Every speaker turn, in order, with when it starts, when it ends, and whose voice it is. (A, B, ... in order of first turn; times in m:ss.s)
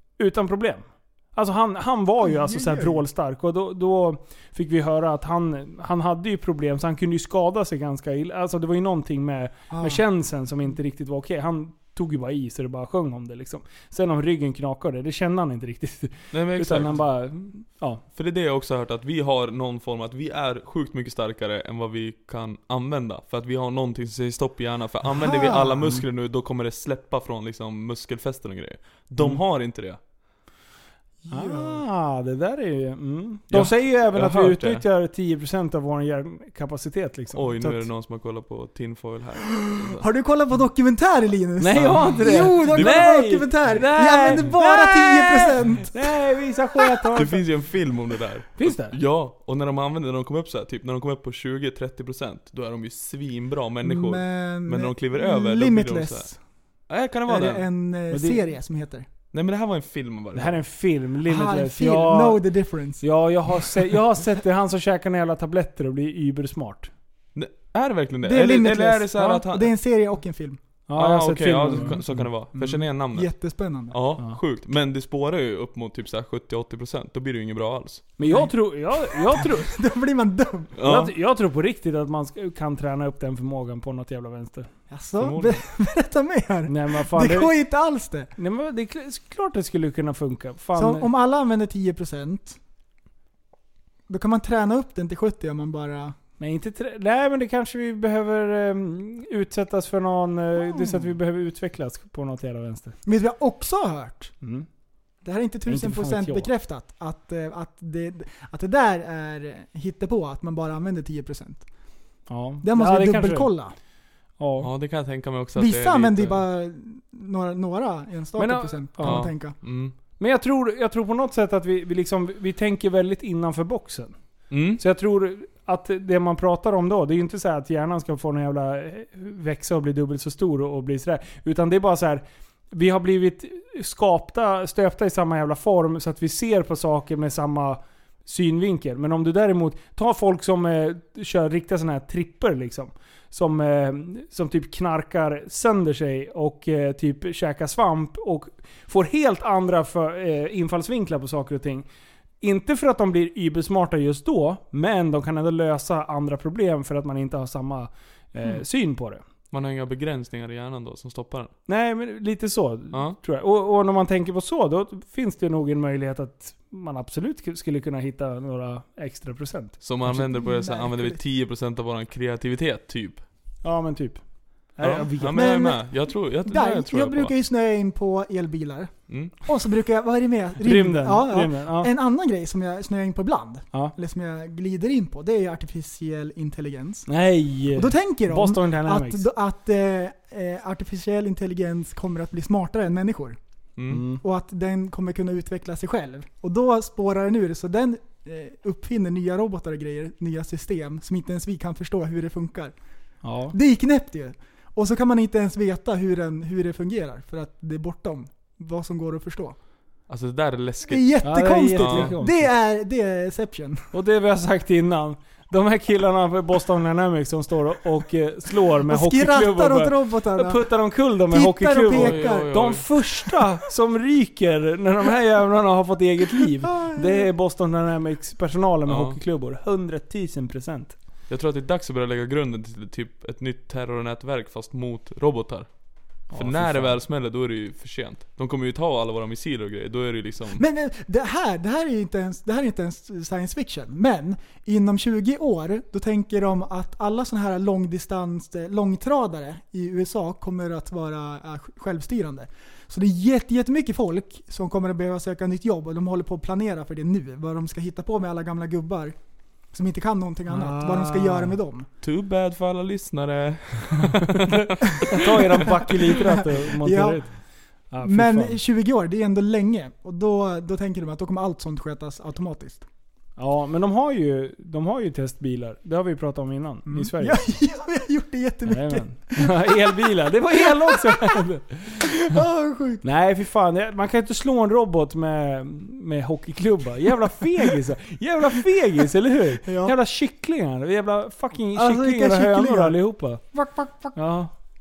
0:00.2-0:18.0 A
0:02.2-0:03.0 B
0:09.7-0:10.0 B
0:16.3-0:17.0 C
0:18.1-0:30.0 C
0:25.2-0:26.0 B
0:31.2-0:31.8 B
0:31.3-0:37.8 A
0:33.5-0:34.8 C
0:37.3-0:40.0 C
0:39.8-0:46.2 B
0:41.6-0:47.4 A
0:41.8-0:43.2 C
0:47.1-0:56.3 C
0:48.6-0:49.0 A
0:53.8-0:56.4 B
0:56.9-0:57.6 C
0:57.3-0:59.1 B
0:58.1-0:58.4 A
0:59.3-1:00.6 C
1:00.3-1:02.4 A
1:01.2-1:03.7 B
1:03.0-1:06.9 A
1:07.3-1:09.7 C
1:08.2-1:10.6 B
1:10.9-1:12.3 A
1:11.0-1:13.3 C
1:11.7-1:12.0 B
1:12.5-1:14.0 B
1:13.9-1:18.1 C
1:18.2-1:19.7 A
1:18.3-1:20.7 B
1:20.8-1:21.1 C
1:20.8-1:24.7 A
1:24.9-1:28.3 B
1:25.2-1:25.6 C
1:26.7-1:27.5 A
1:28.4-1:31.1 A
1:30.7-1:32.6 B
1:34.1-1:36.2 B
1:36.4-1:42.9 A
1:40.6-1:41.1 B
1:43.0-1:44.3 B
1:45.2-1:51.7 B
1:45.7-1:46.5 A
1:52.3-1:53.5 A
1:52.6-1:53.8 B
1:54.4-1:54.7 A
1:54.6-1:56.4 C
1:55.6-1:59.6 B
1:58.4-1:59.3 A
1:59.0-1:59.9 C
2:00.2-2:04.2 A
2:04.5-2:04.8 C
2:04.8-2:31.9 A
2:32.4-2:39.2 A
2:39.5-2:41.5 C
2:41.7-2:49.8 A
2:42.9-2:43.2 C
2:49.8-2:53.2 C
2:50.0-2:51.2 B
2:53.6-2:55.5 A
2:54.8-2:57.3 C
2:55.3-3:07.1 B
3:00.6-3:01.9 A
3:07.1-3:09.3 A
3:07.7-3:13.4 B
3:13.8-3:14.0 C
3:13.9-3:14.2 A
3:14.2-3:22.8 B
3:23.2-3:23.5 A
3:23.5-3:29.6 B
3:30.1-3:31.1 C
3:30.9-3:33.9 B
3:31.2-3:32.5 A
3:31.8-3:32.1 C
3:33.9-3:51.0 A
3:38.8-3:40.6 B
3:41.3-3:42.8 B
3:41.9-3:42.8 C
3:46.6-3:47.3 B
3:48.9-3:49.2 C
3:51.3-3:55.7 C
3:56.3-4:00.6 C
3:56.3-3:57.0 A
4:00.5-4:19.2 B
4:19.7-4:21.9 B
4:20.5-4:21.6 A
4:22.0-4:25.1 C
4:25.1-4:28.6 A
4:25.6-4:27.4 B
4:28.0-4:32.8 B
4:33.4-4:37.4 A
4:36.8-4:39.9 B
4:38.7-4:42.2 A
4:40.6-4:41.4 B
4:42.1-4:43.0 B
4:43.0-4:53.4 A
4:49.6-4:49.9 B
4:51.7-4:54.2 B
4:54.1-4:54.5 A